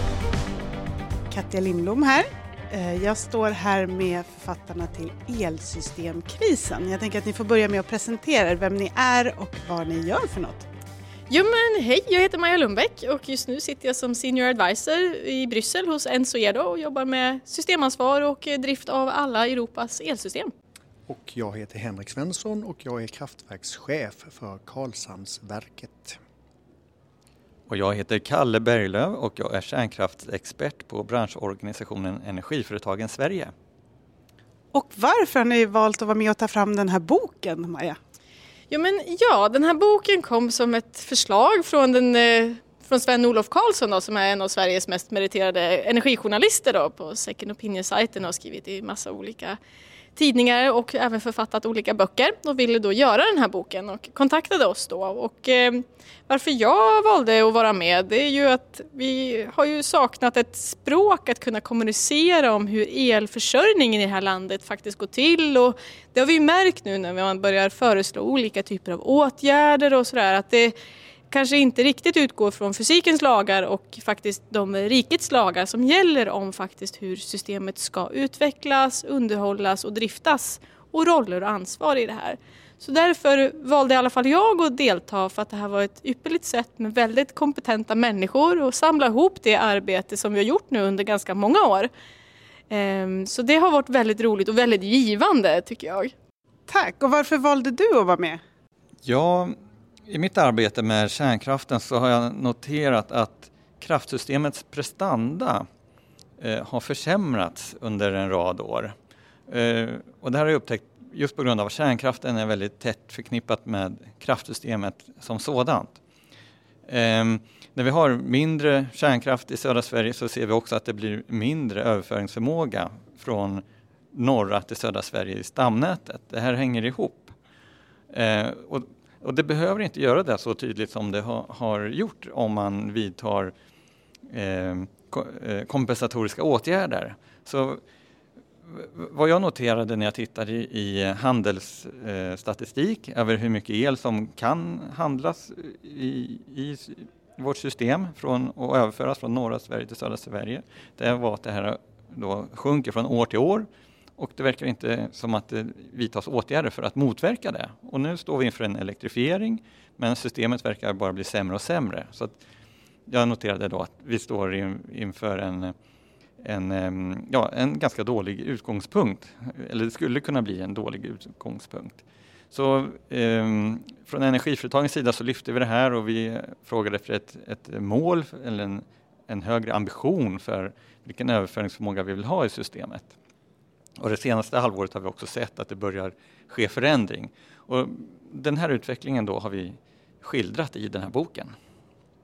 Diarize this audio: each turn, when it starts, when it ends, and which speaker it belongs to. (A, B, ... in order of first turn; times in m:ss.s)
0:01.3-0:10.7 A
0:11.3-0:20.5 B
0:21.1-0:26.2 C
0:27.7-0:33.5 D
0:34.7-0:38.0 A
0:38.7-0:49.6 B
0:50.2-1:10.7 B
1:11.3-1:31.9 B
1:32.7-1:36.1 B
1:36.7-1:38.4 A
1:39.0-1:39.6 D
1:40.1-1:45.7 D
1:46.4-1:48.9 D
1:49.5-1:56.0 D
1:56.9-2:07.3 D
2:08.1-2:13.5 D
2:14.3-2:17.8 D
2:18.7-2:42.4 D
2:43.1-2:45.8 D
2:46.4-3:03.1 D
3:04.0-3:11.6 D